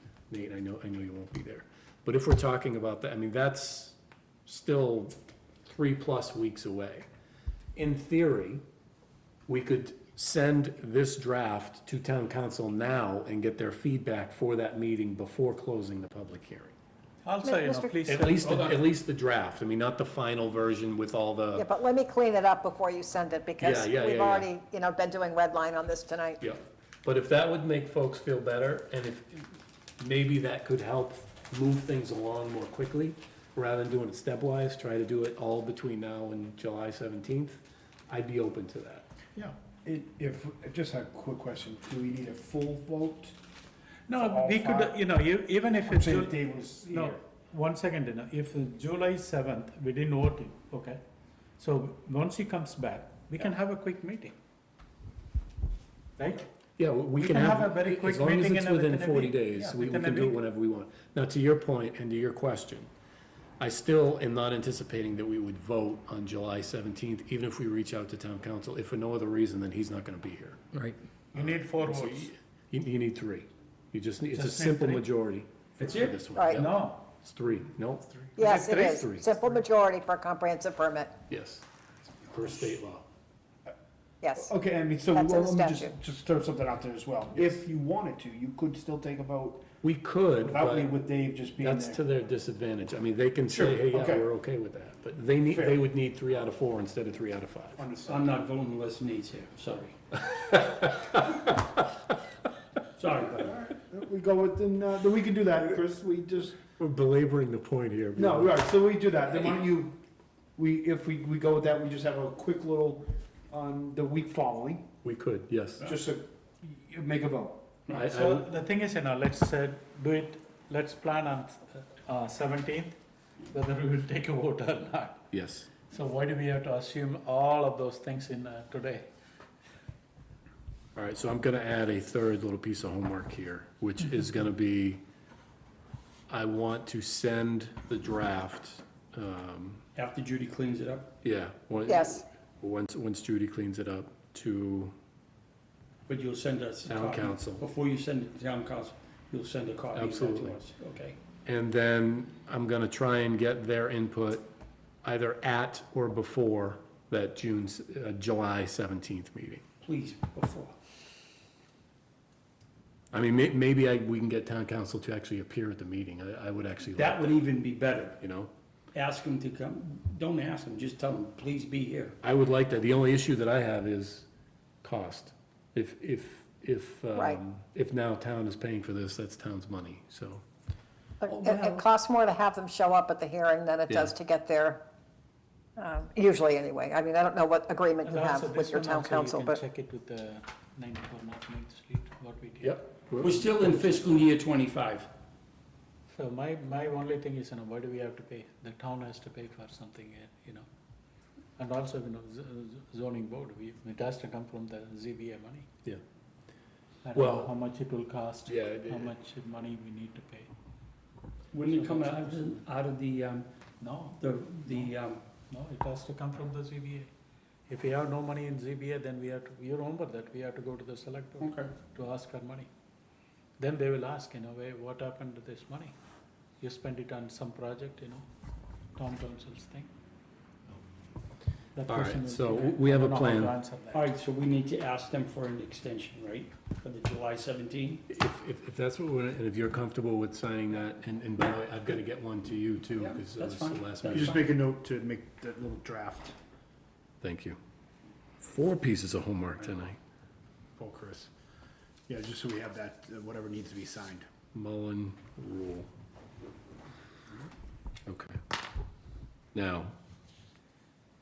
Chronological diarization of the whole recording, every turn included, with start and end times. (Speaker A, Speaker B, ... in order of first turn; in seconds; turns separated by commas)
Speaker A: 0.3-5.1, Speaker A: 5.7-7.1, Speaker A: 7.7-8.6, Speaker A: 9.5-16.7, Speaker B: 17.2-18.8, Speaker C: 17.4-18.2, Speaker A: 18.1-21.7, Speaker C: 21.5-26.4, Speaker A: 23.6-24.5, Speaker A: 26.4-29.5, Speaker A: 30.0-39.0, Speaker D: 39.4-43.4, Speaker B: 44.1-51.0, Speaker D: 44.1-45.0, Speaker D: 45.8-47.2, Speaker B: 51.6-54.3, Speaker B: 56.2-56.5, Speaker A: 56.8-62.9, Speaker B: 57.1-60.4, Speaker A: 63.6-70.7, Speaker B: 71.3-72.3, Speaker A: 71.3-79.2, Speaker B: 74.3-75.1, Speaker E: 75.8-76.2, Speaker C: 76.3-76.7, Speaker B: 76.5-77.0, Speaker C: 78.3-81.1, Speaker B: 78.4-79.4, Speaker A: 81.3-81.6, Speaker A: 82.3-83.0, Speaker C: 84.2-84.5, Speaker D: 84.3-89.7, Speaker C: 85.1-85.9, Speaker A: 89.8-90.9, Speaker D: 90.4-92.0, Speaker A: 91.6-97.8, Speaker D: 93.5-94.3, Speaker D: 95.5-95.8, Speaker D: 97.8-98.3, Speaker E: 98.1-100.0, Speaker A: 100.3-101.4, Speaker E: 103.0-103.5, Speaker D: 103.3-106.6, Speaker A: 106.8-108.6, Speaker D: 108.1-110.0, Speaker D: 110.5-114.9, Speaker A: 115.0-115.9, Speaker D: 115.8-117.7, Speaker A: 117.9-118.5, Speaker B: 117.9-125.2, Speaker A: 125.3-125.7, Speaker B: 125.8-129.1, Speaker A: 130.9-135.0, Speaker A: 136.3-139.8, Speaker E: 139.9-141.1, Speaker A: 141.2-144.9, Speaker C: 141.9-142.2, Speaker E: 146.1-151.2, Speaker A: 146.9-147.6, Speaker A: 149.9-150.6, Speaker A: 151.4-154.5, Speaker A: 155.0-159.6, Speaker E: 159.8-160.8, Speaker A: 163.1-167.4, Speaker E: 166.9-168.2, Speaker A: 168.2-168.5, Speaker E: 168.9-172.2, Speaker A: 172.2-174.3, Speaker A: 174.8-180.4, Speaker C: 177.1-177.4, Speaker C: 181.2-184.8, Speaker E: 181.3-181.8, Speaker A: 183.9-184.1, Speaker C: 185.8-189.6, Speaker B: 188.0-192.8, Speaker A: 192.6-194.1, Speaker E: 193.2-195.1, Speaker B: 196.1-200.7, Speaker B: 201.6-205.7, Speaker B: 207.0-210.5, Speaker A: 207.1-207.5, Speaker A: 208.5-209.1, Speaker E: 211.5-213.5, Speaker B: 211.7-212.6, Speaker B: 213.8-214.9, Speaker E: 214.2-215.2, Speaker B: 215.5-217.1, Speaker B: 217.7-222.7, Speaker E: 221.4-221.7, Speaker B: 223.6-225.9, Speaker B: 226.6-228.3, Speaker B: 228.9-229.9, Speaker B: 231.8-234.1, Speaker A: 231.8-233.6, Speaker E: 233.9-238.0, Speaker A: 238.1-244.4, Speaker E: 243.0-244.4, Speaker D: 244.1-246.3, Speaker A: 247.2-247.6, Speaker A: 248.4-250.0, Speaker D: 250.8-251.3, Speaker D: 252.1-254.3, Speaker A: 254.5-255.9, Speaker A: 258.1-258.4, Speaker A: 259.5-259.9